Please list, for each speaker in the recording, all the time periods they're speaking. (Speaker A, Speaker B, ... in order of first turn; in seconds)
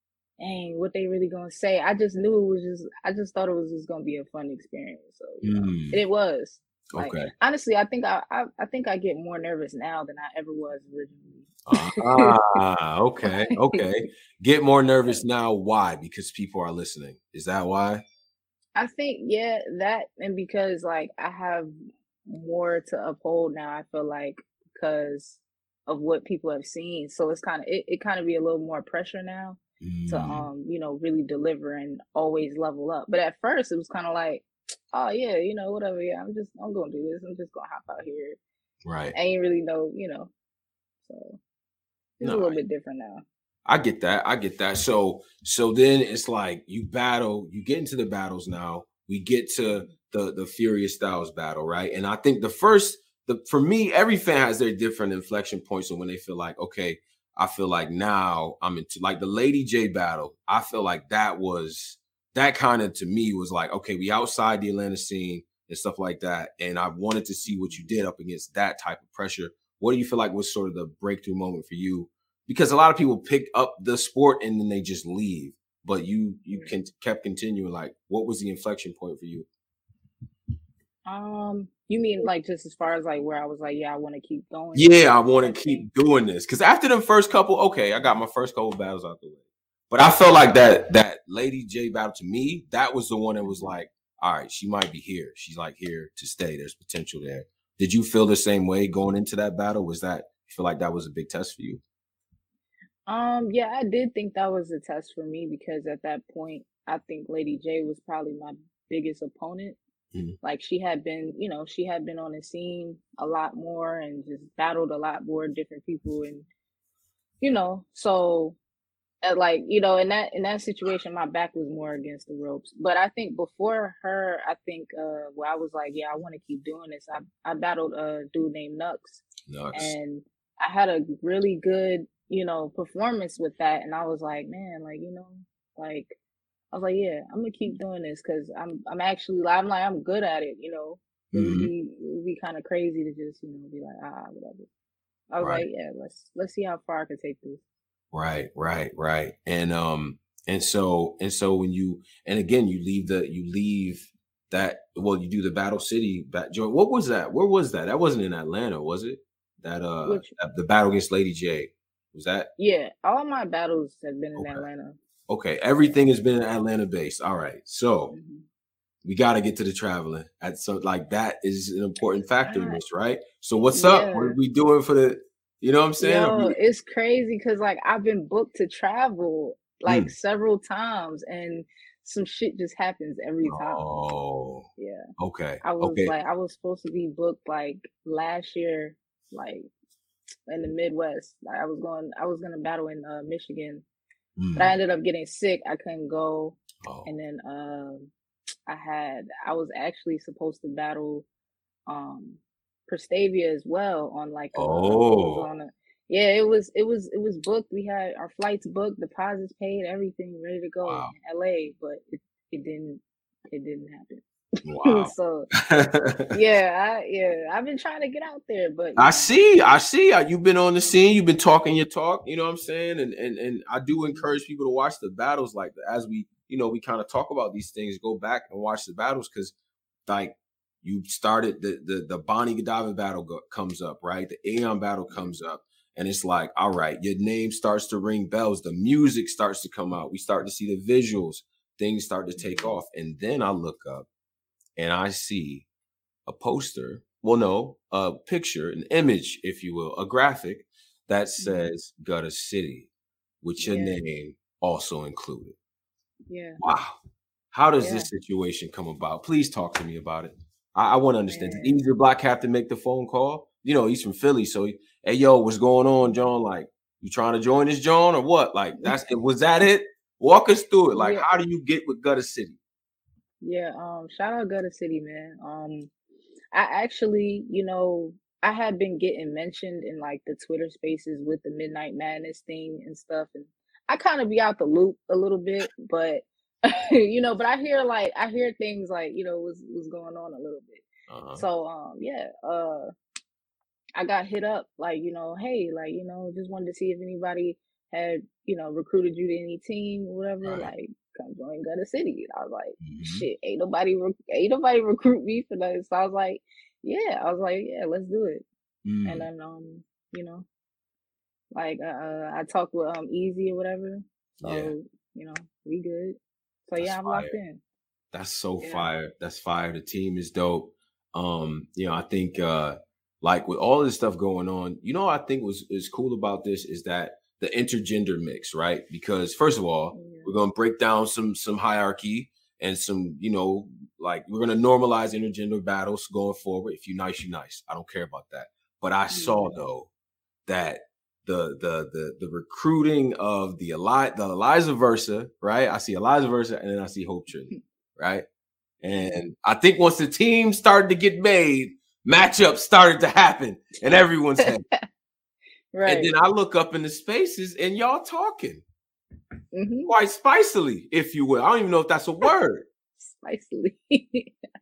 Speaker A: 0.4-12.3, 13.2-13.8, 18.8-21.8, 22.3-38.4, 39.1-40.3, 41.0-41.4, 42.2-43.2, 67.6-68.0, 81.0-85.9, 93.4-93.7, 103.1-109.8, 110.4-116.5, 117.4-118.6, 119.2-136.2, 136.7-144.7, 145.3-147.6, 160.0-160.3, 162.6-165.0, 168.1-168.4, 172.4-172.8, 173.7-174.4, 176.0-183.8, 184.8-185.1, 185.6-189.7, 190.5-193.8, 194.5-198.1, 198.7-201.2, 201.9-214.2, 214.8-215.5, 216.3-219.3, 224.0-224.3, 235.1-235.4, 242.4-242.8, 251.4-251.7, 253.6-254.0, 256.3-256.6, 257.8-258.1, 261.3-261.8, 270.9-271.3, 273.4-275.9, 276.5-292.9, 294.0-308.4, 309.0-310.4, 311.5-317.6, 318.6-318.9, 329.9-330.3, 339.1-339.6, 348.9-349.2, 355.7-356.1, 359.5-359.9, 363.0-364.3
Speaker B: 5.4-6.0, 6.9-7.3, 11.7-18.0, 29.8-30.5, 38.9-39.1, 42.2-42.6, 43.7-79.5, 84.7-101.8, 129.5-129.9, 141.3-141.7, 145.4-145.7, 148.1-162.5, 164.3-164.7, 165.3-168.1, 169.0-176.6, 179.9-180.1, 183.4-186.1, 194.4-194.7, 196.8-197.1, 204.5-205.5, 210.8-211.1, 214.6-216.3, 219.0-229.5, 230.1-244.1, 244.8-245.7, 246.2-252.9, 253.4-255.6, 256.6-257.0, 257.5-272.6, 291.1-291.4, 300.4-300.7, 302.8-303.2, 308.8-309.3, 314.4-314.7, 316.8-317.4, 318.1-339.9, 340.5-348.2, 348.8-354.7, 355.8-358.6, 359.9-362.7